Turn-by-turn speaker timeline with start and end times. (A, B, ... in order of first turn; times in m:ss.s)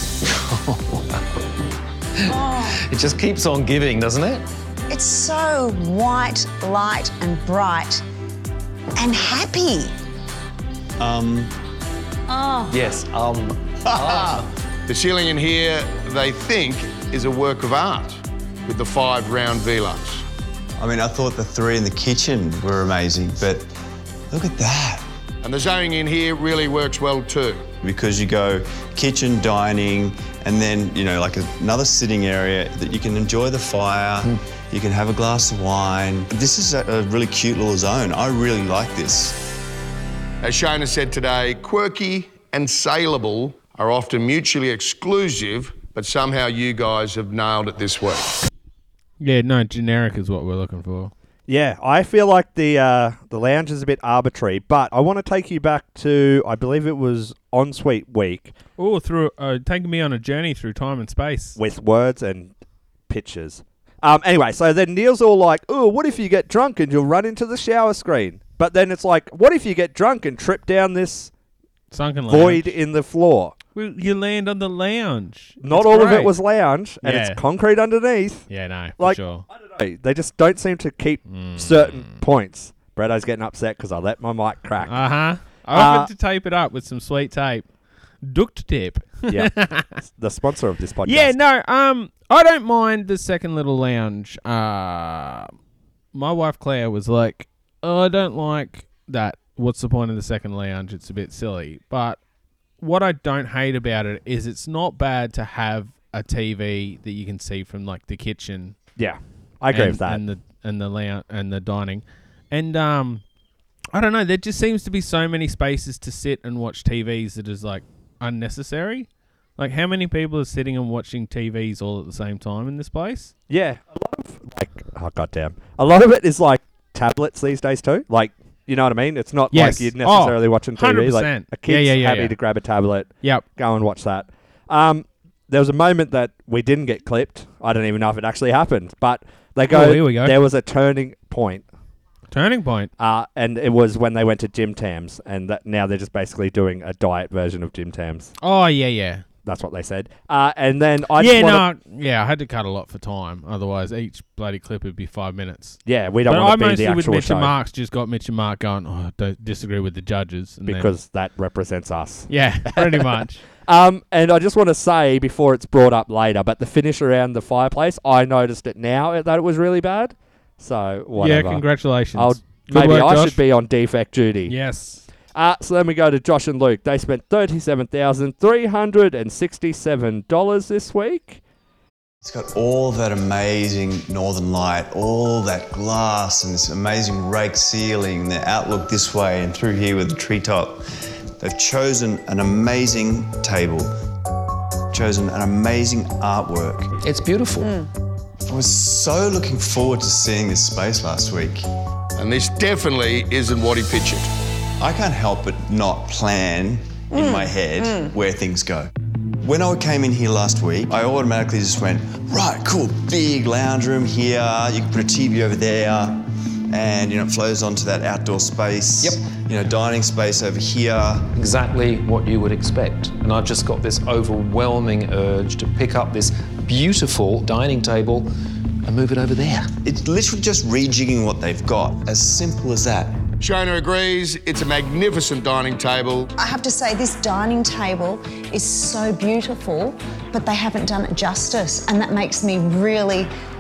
0:00.2-0:01.2 A
0:02.2-0:04.5 A
0:02.3-0:02.7 B
0:04.9-0:08.0 B
0:09.0-0:10.0 B
0:11.0-0:11.5 C
0:12.3-0:12.7 B
0:12.7-0:14.4 A
0:13.9-0:14.3 C
0:14.9-0:20.2 D
0:20.8-0:23.7 C
0:24.3-0:25.1 C
0:25.4-0:27.7 D
0:27.8-0:39.4 C
0:40.4-0:48.4 D
0:49.2-0:51.1 E
0:51.5-0:58.5 F
0:58.8-1:01.6 E
1:01.6-1:02.5 F
1:03.1-1:11.3 F
1:11.9-1:12.8 E
1:12.3-1:13.6 F
1:13.8-1:16.4 E
1:15.6-1:18.4 F
1:17.0-1:17.4 E
1:18.5-1:19.5 E
1:19.0-1:25.0 F
1:21.3-1:22.2 E
1:24.8-1:27.7 E
1:25.7-1:26.1 F
1:28.2-1:29.9 E
1:29.3-1:31.3 F
1:31.0-1:35.5 E
1:36.1-1:42.2 E
1:42.8-1:48.8 E
1:49.0-1:50.2 F
1:49.7-1:53.2 E
1:53.9-2:03.3 E
2:03.5-2:21.6 F
2:09.5-2:12.4 E
2:19.7-2:20.4 E
2:22.3-2:22.9 E
2:23.0-2:28.3 F
2:28.4-2:29.2 E
2:29.4-2:31.7 F
2:31.2-2:40.9 E
2:35.9-2:37.5 F
2:40.7-2:51.6 F
2:42.3-2:43.4 E
2:51.2-2:53.4 E
2:52.2-2:54.5 F
2:54.5-2:55.0 E
2:55.3-3:01.4 F
3:02.2-3:10.9 C
3:11.4-3:13.9 C
3:14.9-3:16.9 C
3:17.0-3:17.8 A
3:18.5-3:21.7 C
3:22.2-3:24.3 D
3:24.8-3:28.9 C
3:27.1-3:28.1 B
3:29.4-3:41.3 C
3:41.4-3:48.3 A
3:48.8-3:49.7 A
3:49.8-3:53.2 C
3:53.4-3:56.3 D
3:56.4-4:03.3 B